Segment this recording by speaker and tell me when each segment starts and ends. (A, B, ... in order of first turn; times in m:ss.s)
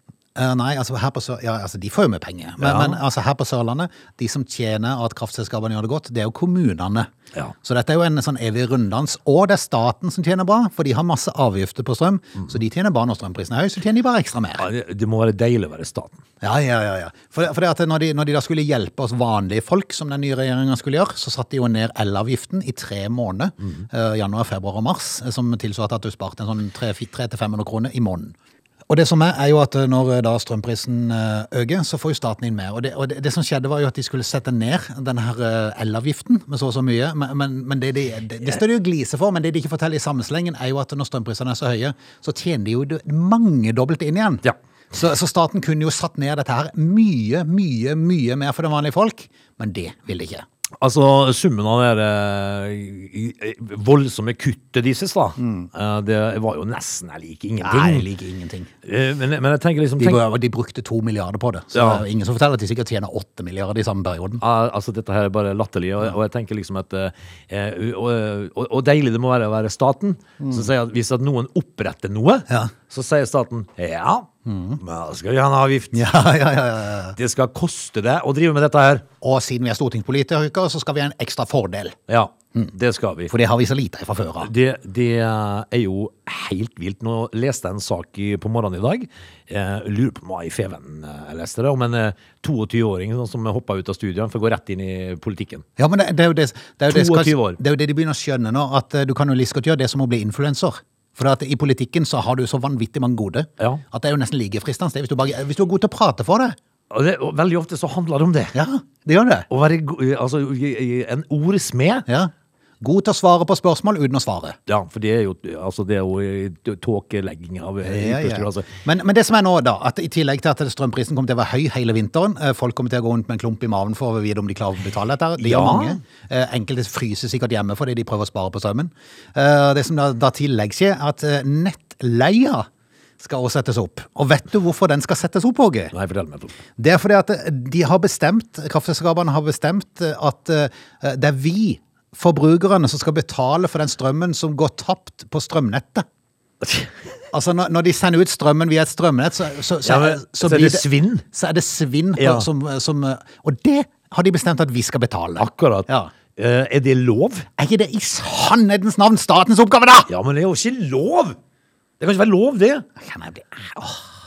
0:00.4-0:07.1 A
0:02.6-0:03.0 B
0:07.6-0:14.7 A
0:14.6-0:16.2 B
0:16.4-0:28.4 A
0:28.9-0:50.4 A
0:50.8-0:58.1 B
0:55.4-0:55.7 A
0:57.6-0:58.7 A
0:58.8-1:00.2 B
1:00.0-1:04.4 A
1:01.7-1:02.0 B
1:04.4-1:16.1 B
1:10.4-1:10.7 A
1:14.5-1:14.8 A
1:15.9-1:17.2 A
1:17.2-1:19.1 B
1:19.2-1:22.0 A
1:22.1-1:23.3 B
1:23.3-1:24.5 A
1:24.4-1:35.6 B
1:35.8-1:46.6 A
1:36.9-1:37.6 B
1:46.9-1:48.6 B
1:48.5-1:49.5 A
1:49.5-1:52.1 B
1:52.1-1:54.6 A
1:54.7-1:58.7 B
1:57.8-2:12.7 A
2:05.4-2:06.0 B
2:13.2-2:15.9 A
2:15.9-2:16.6 B
2:16.8-2:26.1 A
2:26.6-2:26.9 B
2:27.3-2:36.1 A
2:29.8-2:31.3 B
2:32.2-2:32.5 B
2:35.4-2:37.5 B
2:37.6-2:40.1 A
2:40.1-2:41.4 B
2:42.0-2:42.9 B
2:43.0-2:44.1 A